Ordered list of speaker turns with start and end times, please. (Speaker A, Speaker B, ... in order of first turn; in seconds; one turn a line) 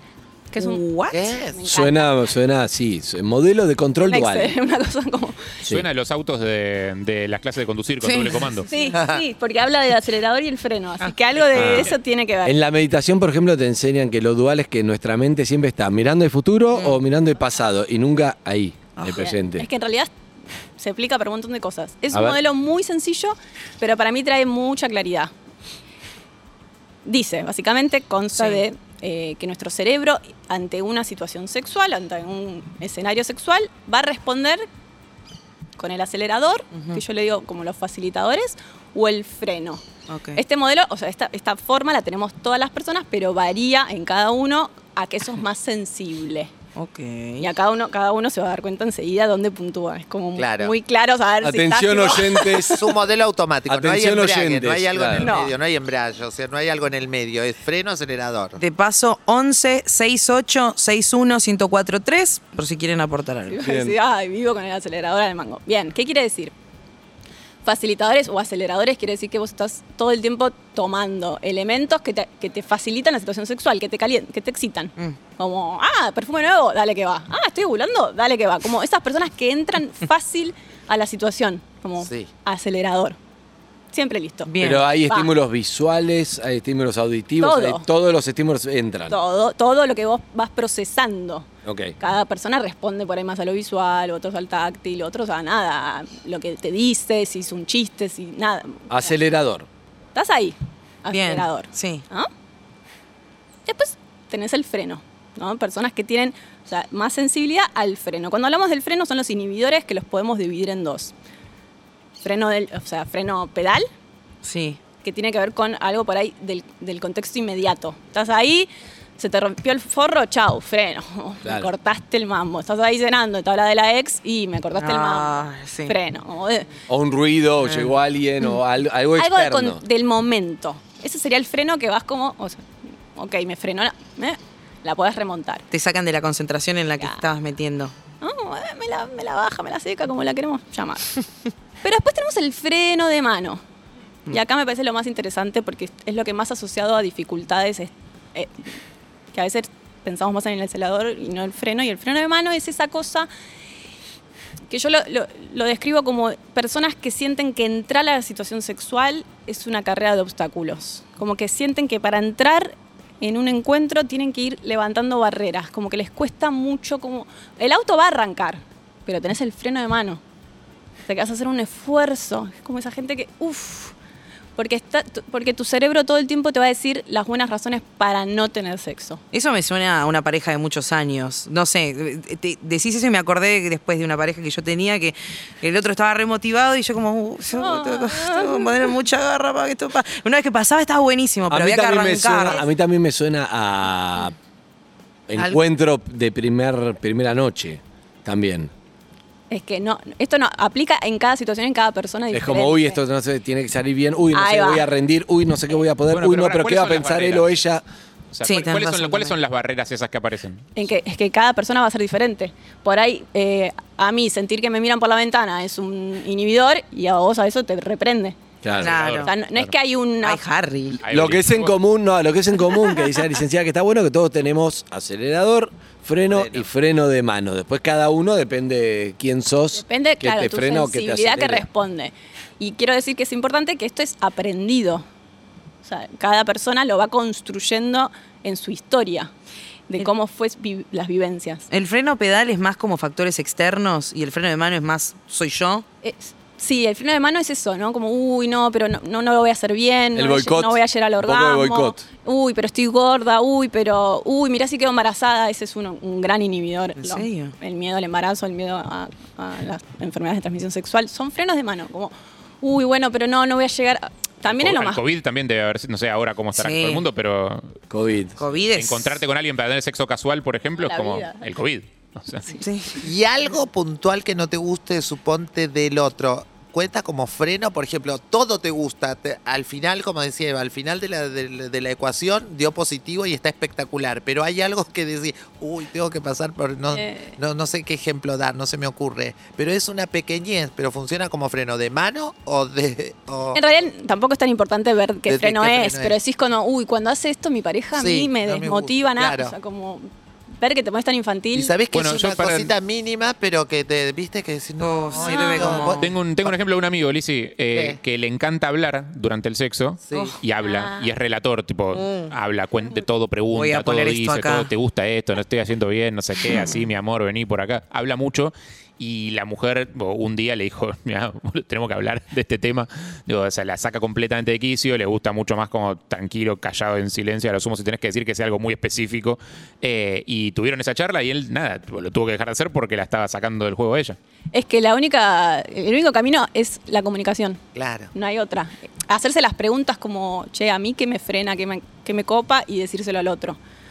Speaker A: 0.5-0.8
Speaker B: 0.5-1.3
Speaker C: 1.1-1.6
Speaker A: 1.5-2.1
Speaker D: 1.6-4.5
Speaker A: 4.0-5.5
Speaker E: 5.6-8.7
Speaker B: 8.0-8.9
Speaker A: 8.7-12.5
Speaker C: 8.9-9.2
Speaker D: 11.5-11.9
Speaker D: 12.4-19.7
Speaker A: 19.0-20.1
Speaker A: 20.8-25.3
Speaker D: 22.1-22.4
Speaker A: 27.1-34.6
Speaker A: 35.8-39.8
Speaker B: 36.7-37.0
Speaker B: 40.1-40.4
Speaker A: 40.3-46.5
Speaker B: 46.8-47.5
Speaker A: 47.4-52.8
Speaker C: 50.4-50.7
Speaker D: 51.4-52.8
Speaker C: 52.7-58.6
Speaker D: 53.7-55.3
Speaker A: 55.2-55.5
Speaker B: 58.6-63.6
Speaker A: 63.5-66.5
Speaker D: 63.6-64.0
Speaker A: 67.6-83.2
Speaker C: 82.0-82.3
Speaker A: 83.9-85.3
Speaker B: 84.5-84.9
Speaker D: 84.6-89.2
Speaker A: 87.4-87.8
Speaker A: 89.1-91.5
Speaker D: 91.6-92.0
Speaker A: 92.0-99.1
Speaker D: 98.9-99.7
Speaker A: 100.1-102.3
Speaker B: 101.1-102.0
Speaker A: 103.7-111.1
Speaker A: 112.2-113.9
Speaker B: 114.4-114.8
Speaker A: 115.0-126.7
Speaker D: 121.4-121.7
Speaker B: 124.8-125.9
Speaker D: 126.9-129.8
Speaker B: 127.6-127.9
Speaker A: 129.1-132.6
Speaker A: 133.1-135.6
Speaker B: 135.7-137.9
Speaker A: 138.2-141.2
Speaker A: 141.8-143.6
Speaker A: 144.3-148.5
Speaker A: 149.3-153.3
Speaker A: 154.7-170.2
Speaker A: 171.1-173.9
Speaker A: 174.6-179.2
Speaker B: 179.3-192.6
Speaker A: 187.5-188.9
Speaker D: 191.5-194.3
Speaker D: 195.3-198.7
Speaker A: 199.5-203.0
Speaker D: 202.3-207.8
Speaker A: 204.3-204.9
Speaker E: 206.1-207.5
Speaker E: 208.3-210.7
Speaker B: 208.4-209.3
Speaker A: 210.8-218.4
Speaker D: 218.6-219.1
Speaker E: 218.8-219.7
Speaker B: 218.8-219.3
Speaker A: 219.2-220.4
Speaker B: 220.2-221.0
Speaker E: 221.0-221.8
Speaker D: 221.1-231.7
Speaker C: 226.3-226.6
Speaker A: 229.7-235.0
Speaker A: 235.8-239.3
Speaker A: 239.9-241.7
Speaker B: 241.7-245.8
Speaker A: 246.0-265.0
Speaker D: 250.1-252.0
Speaker B: 257.0-257.5
Speaker E: 264.4-267.7
Speaker B: 266.6-267.0
Speaker D: 267.9-268.4
Speaker B: 268.4-269.2
Speaker E: 268.7-272.5
Speaker A: 270.8-271.4
Speaker B: 272.6-273.0
Speaker C: 273.0-293.6
Speaker A: 286.9-287.4
Speaker A: 293.5-300.1
Speaker C: 295.2-296.2
Speaker C: 297.9-299.5
Speaker A: 300.6-301.7
Speaker C: 301.5-306.6
Speaker E: 301.9-302.7
Speaker B: 304.8-306.0
Speaker A: 305.4-305.8
Speaker E: 306.0-334.1
Speaker C: 307.7-308.0
Speaker C: 310.1-310.4
Speaker A: 310.6-311.1
Speaker B: 311.9-312.3
Speaker B: 313.5-314.7
Speaker A: 334.5-337.6
Speaker C: 337.7-338.1
Speaker A: 338.1-343.6